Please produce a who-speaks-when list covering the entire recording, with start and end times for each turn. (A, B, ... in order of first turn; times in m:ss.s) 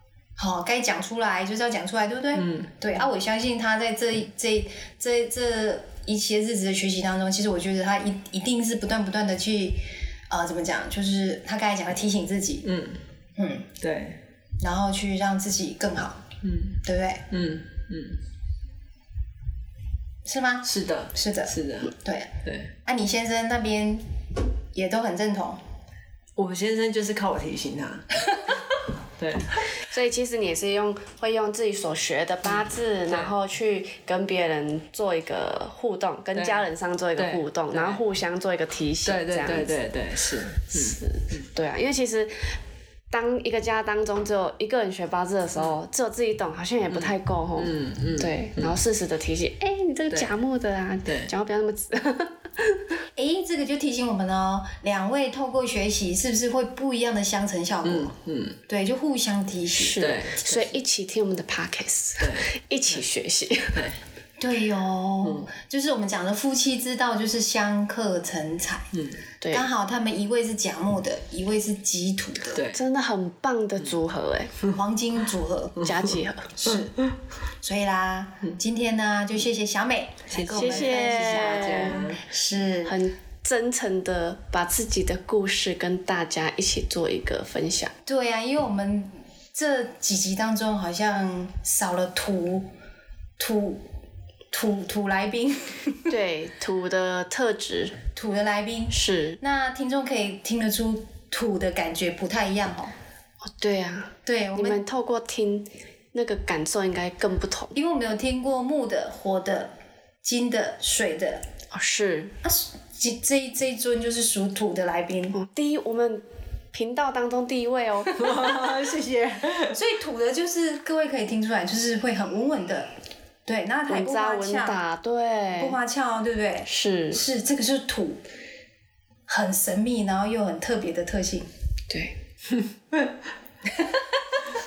0:00.4-0:12.7 A
0:02.4-0:02.7 B
0:12.6-0:13.0 B
0:13.4-0:13.7 A
0:13.8-0:14.2 B
0:14.6-0:16.2 A
0:16.4-0:18.2 B
0:16.8-0:17.3 A
0:20.2-0:22.3 A
0:20.6-0:21.9 B
0:22.4-0:22.7 B
0:22.8-0:24.1 A
0:24.7-0:25.6 A
0:26.4-0:28.1 B
0:29.2-0:29.7 B
0:29.8-0:39.8 C
0:32.5-0:33.3 B
0:36.3-0:38.0 B
0:39.0-0:41.5 B
0:40.7-0:42.6 C
0:43.1-0:53.0 C
0:46.9-0:48.8 B
0:51.0-0:51.3 B
0:53.2-0:58.1 A
0:57.8-0:58.6 B
0:58.7-1:00.1 A
0:59.8-1:03.9 C
1:00.0-1:00.8 B
1:02.2-1:03.0 B
1:03.7-1:04.0 B
1:04.4-1:08.9 A
1:05.2-1:05.5 B
1:08.9-1:09.2 B
1:09.4-1:09.7 C
1:09.5-1:12.6 A
1:12.5-1:12.8 B
1:12.7-1:14.6 C
1:14.7-1:15.8 A
1:15.8-1:16.1 B
1:15.8-1:16.5 C
1:16.5-1:17.0 A
1:17.6-1:23.0 A
1:20.3-1:22.2 B
1:20.5-1:22.0 C
1:22.8-1:27.9 C
1:28.1-1:32.7 A
1:33.4-1:33.8 A
1:34.5-1:36.1 A
1:36.1-1:38.0 C
1:38.2-1:42.9 A
1:38.9-1:39.4 C
1:43.5-1:47.8 C
1:44.2-1:44.8 A
1:47.7-1:49.7 A
1:50.2-1:51.4 A
1:51.7-1:52.4 C
1:52.4-1:55.4 A
1:55.3-1:58.4 C
1:58.2-1:59.8 B
1:59.7-2:02.9 A
2:03.5-2:04.8 A
2:03.9-2:05.8 C
2:05.6-2:08.2 A
2:06.7-2:07.2 C
2:09.3-2:11.5 A
2:11.9-2:12.2 C
2:13.7-2:14.4 A